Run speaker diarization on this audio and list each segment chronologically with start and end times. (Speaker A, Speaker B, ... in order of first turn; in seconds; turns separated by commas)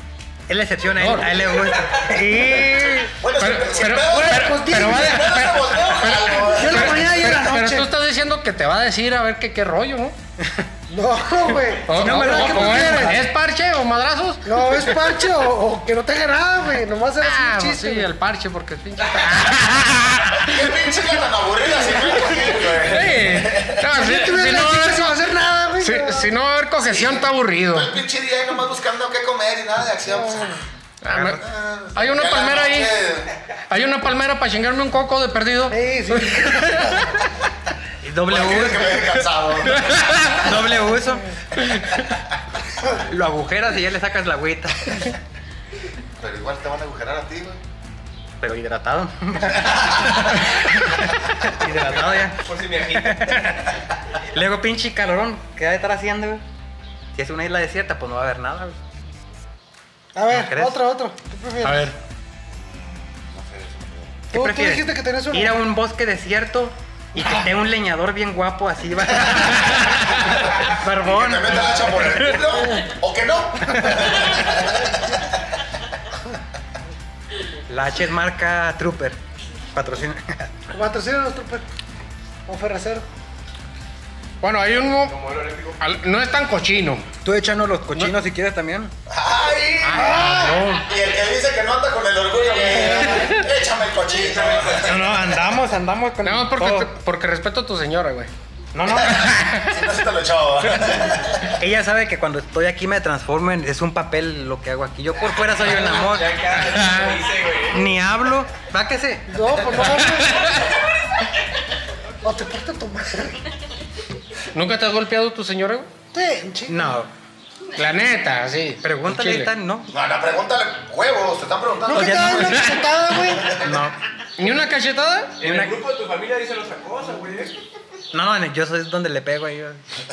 Speaker A: 0.5-3.1, Speaker B: 1.0-1.4, Speaker C: 1.8-2.0, Speaker D: 3.0-7.3, Speaker B: 3.4-10.2, Speaker E: 3.9-5.3, Speaker E: 6.5-7.9, Speaker A: 10.4-10.7, Speaker E: 10.9-13.2, Speaker B: 11.8-15.0, Speaker A: 11.9-13.2, Speaker E: 14.4-18.1, Speaker B: 17.2-21.0, Speaker D: 20.3-23.9, Speaker B: 22.1-25.3, Speaker E: 23.9-26.3, Speaker B: 25.8-27.9, Speaker D: 26.8-30.7, Speaker E: 30.1-30.6, Speaker B: 31.0-31.4, Speaker A: 31.1-31.4, Speaker D: 31.2-33.4, Speaker B: 31.9-32.9, Speaker B: 33.7-37.1, Speaker E: 35.7-37.0, Speaker A: 38.0-39.2, Speaker D: 38.2-40.7, Speaker B: 39.7-40.5, Speaker A: 40.4-41.2, Speaker B: 41.6-42.0, Speaker A: 42.9-45.1, Speaker D: 46.2-47.6, Speaker A: 48.4-56.4, Speaker D: 49.7-50.1, Speaker C: 52.1-53.6, Speaker A: 57.1-58.8, Speaker E: 60.1-61.9, Speaker A: 60.3-60.8, Speaker B: 61.6-62.0, Speaker D: 62.5-64.2, Speaker E: 64.3-65.6, Speaker A: 64.3-72.4, Speaker B: 69.3-70.4, Speaker D: 70.9-75.4, Speaker E: 74.7-75.0, Speaker A: 77.7-79.2, Speaker A: 79.7-80.5, Speaker E: 80.7-81.6, Speaker E: 82.5-83.0, Speaker B: 84.4-85.2, Speaker C: 85.1-85.8, Speaker B: 85.8-87.1, Speaker A: 87.2-88.9, Speaker D: 89.1-95.1, Speaker B: 89.8-90.9, Speaker E: 89.9-90.6, Speaker C: 94.1-95.1, Speaker A: 94.8-96.9, Speaker B: 96.2-98.3, Speaker A: 98.7-99.3, Speaker D: 98.8-101.6, Speaker B: 98.9-99.9, Speaker A: 101.5-106.5, Speaker C: 105.3-107.9, Speaker B: 106.5-107.2, Speaker A: 107.7-109.8, Speaker E: 109.3-110.6, Speaker B: 109.8-110.7, Speaker E: 112.2-113.5, Speaker B: 114.5-115.9, Speaker E: 116.1-117.0, Speaker A: 116.7-117.1, Speaker B: 117.7-119.5, Speaker A: 118.8-119.9, Speaker D: 119.9-122.6, Speaker E: 121.8-123.7, Speaker A: 121.9-122.8, Speaker B: 122.4-122.8, Speaker A: 123.4-124.0, Speaker B: 124.4-125.4, Speaker C: 125.4-127.5, Speaker A: 125.4-125.8, Speaker A: 128.1-129.8